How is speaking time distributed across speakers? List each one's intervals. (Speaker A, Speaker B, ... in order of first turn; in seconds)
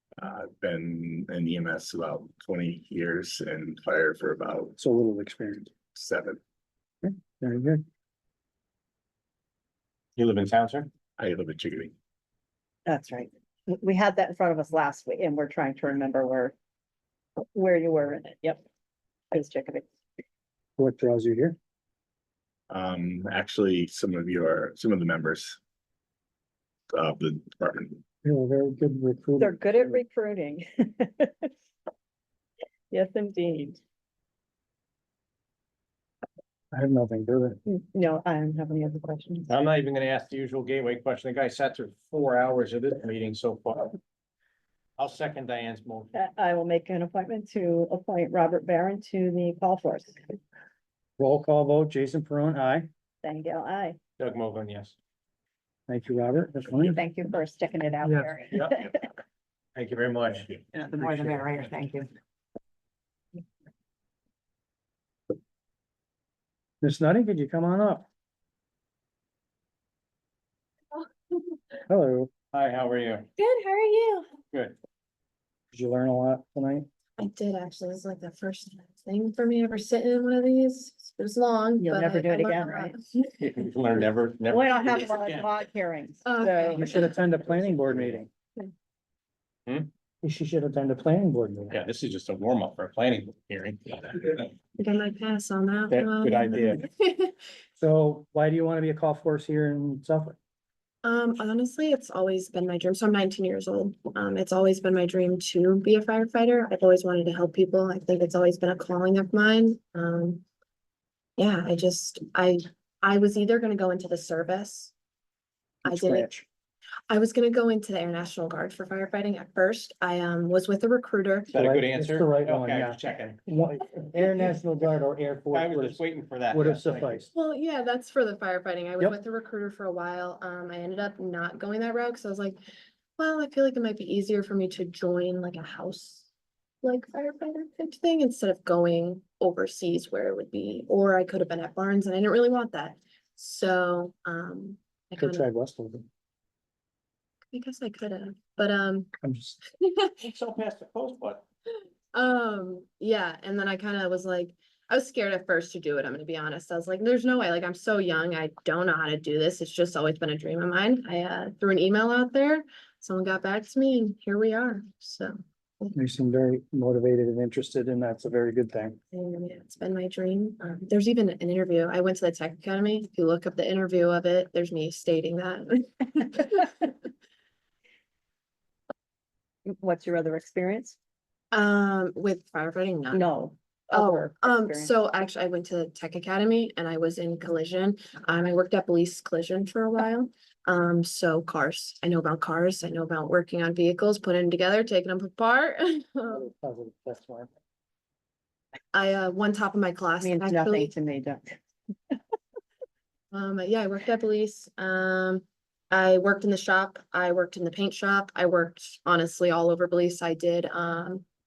Speaker A: 0.2-4.8, 5.9-6.4, 11.2-11.9, 22.7-25.6, 26.9-28.0
Speaker B: 4.8-5.7, 7.0-7.8, 20.8-21.6, 28.2-29.9, 36.7-37.6, 51.2-52.9, 55.9-57.0, 58.0-58.3, 66.8-68.1, 71.9-72.3, 75.7-76.8, 86.7-88.3, 90.2-91.8, 97.8-100.4, 115.8-116.4, 121.5-127.3, 145.2-146.0, 149.2-149.6, 165.9-169.0, 196.3-197.5
Speaker C: 10.2-10.9, 39.5-44.0, 45.0-46.1, 54.2-54.9, 58.5-58.8, 59.7-60.6, 72.5-73.3, 83.4-85.6, 87.5-88.2, 91.7-94.5, 95.9-96.8, 121.5-123.4, 125.5-127.3, 150.2-151.4
Speaker D: 12.8-16.5, 17.4-18.6, 19.3-19.9, 29.4-31.5, 32.9-33.8, 37.6-39.5, 46.1-50.2, 53.2-54.0, 56.9-59.0, 60.7-62.1, 81.8-82.9, 84.5-87.0, 179.7-180.9, 183.1-184.9, 200.2-201.6
Speaker E: 73.4-74.2, 77.2-83.3, 86.2-87.1, 94.8-97.4, 101.0-110.4, 111.4-114.9, 115.8-116.4, 117.1-121.5, 127.3-132.6, 133.2-136.3, 136.8-145.5, 147.5-149.1, 149.7-150.2, 152.1-165.9, 169.1-177.1, 181.5-183.2, 183.9-196.4, 198.9-200.9, 203.3-211.2